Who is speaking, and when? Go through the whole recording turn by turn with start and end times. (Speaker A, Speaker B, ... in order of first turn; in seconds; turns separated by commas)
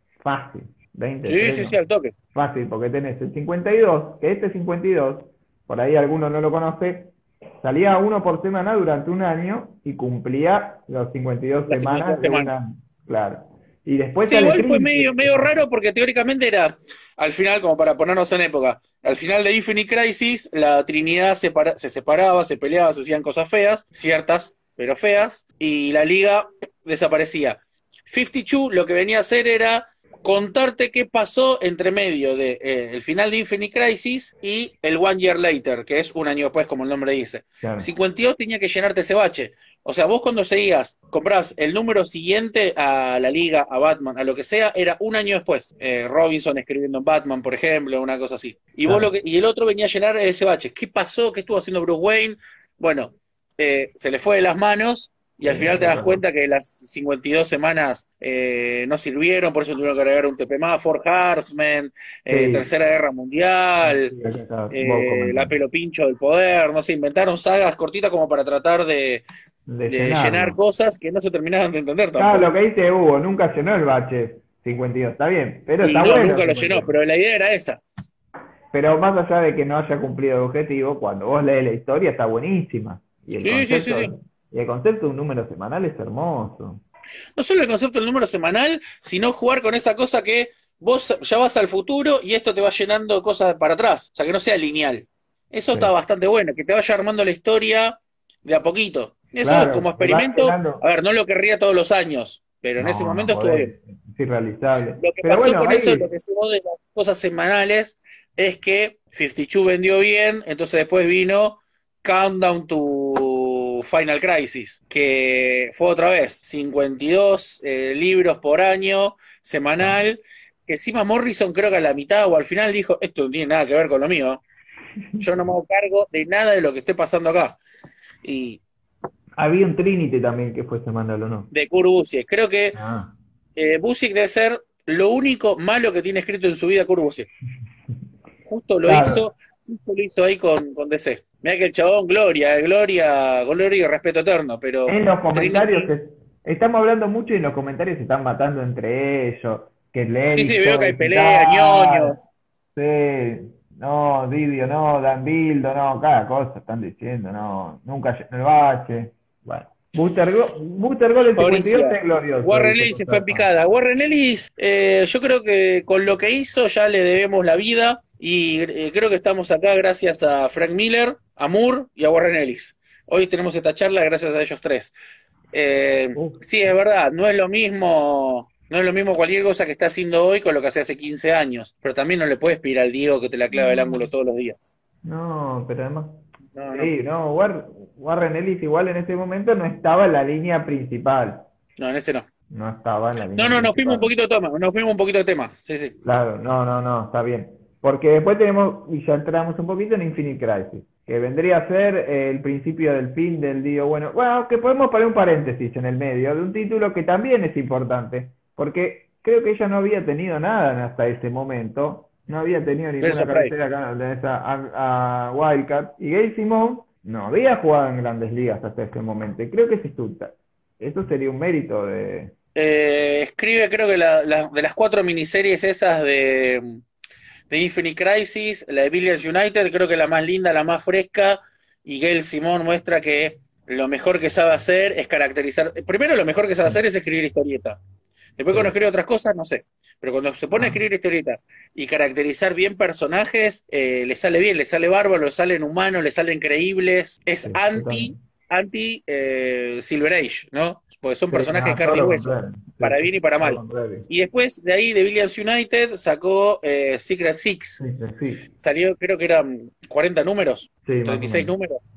Speaker A: 0.2-1.8, Speaker B: 1.2-2.1, Speaker A: 2.3-15.6, Speaker B: 11.7-12.5, Speaker B: 14.3-64.1, Speaker A: 37.6-37.9, Speaker A: 48.9-49.1, Speaker A: 55.4-56.2, Speaker A: 62.3-62.7, Speaker A: 63.8-65.6, Speaker B: 64.7-69.2, Speaker A: 69.7-70.6, Speaker B: 69.9-72.5, Speaker A: 72.2-76.9, Speaker B: 75.8-77.8, Speaker A: 78.7-86.8, Speaker B: 83.4-84.1, Speaker B: 87.4-103.7, Speaker A: 99.4-100.8, Speaker A: 102.8-106.1, Speaker B: 105.0-124.4, Speaker A: 125.1-125.4, Speaker B: 125.2-127.6, Speaker B: 128.2-128.6, Speaker A: 129.4-131.5, Speaker B: 131.5-132.8, Speaker A: 132.7-133.1, Speaker B: 133.6-137.3, Speaker B: 138.5-145.9, Speaker A: 138.8-139.3, Speaker A: 144.9-152.2, Speaker B: 150.3-152.2, Speaker A: 152.8-163.5, Speaker B: 161.4-174.9, Speaker B: 175.5-184.7, Speaker A: 176.2-176.8, Speaker A: 183.5-184.1, Speaker A: 185.0-186.2, Speaker B: 186.6-186.9, Speaker A: 186.7-191.5, Speaker B: 191.8-192.3, Speaker A: 192.5-194.1, Speaker B: 193.4-195.9, Speaker A: 196.0-222.3, Speaker B: 213.0-213.5, Speaker B: 222.6-226.8, Speaker B: 227.5-237.8, Speaker B: 238.4-257.8, Speaker A: 240.5-240.8, Speaker A: 247.4-248.2, Speaker A: 251.3-254.1, Speaker A: 257.8-258.4, Speaker B: 258.6-261.8, Speaker A: 260.9-261.5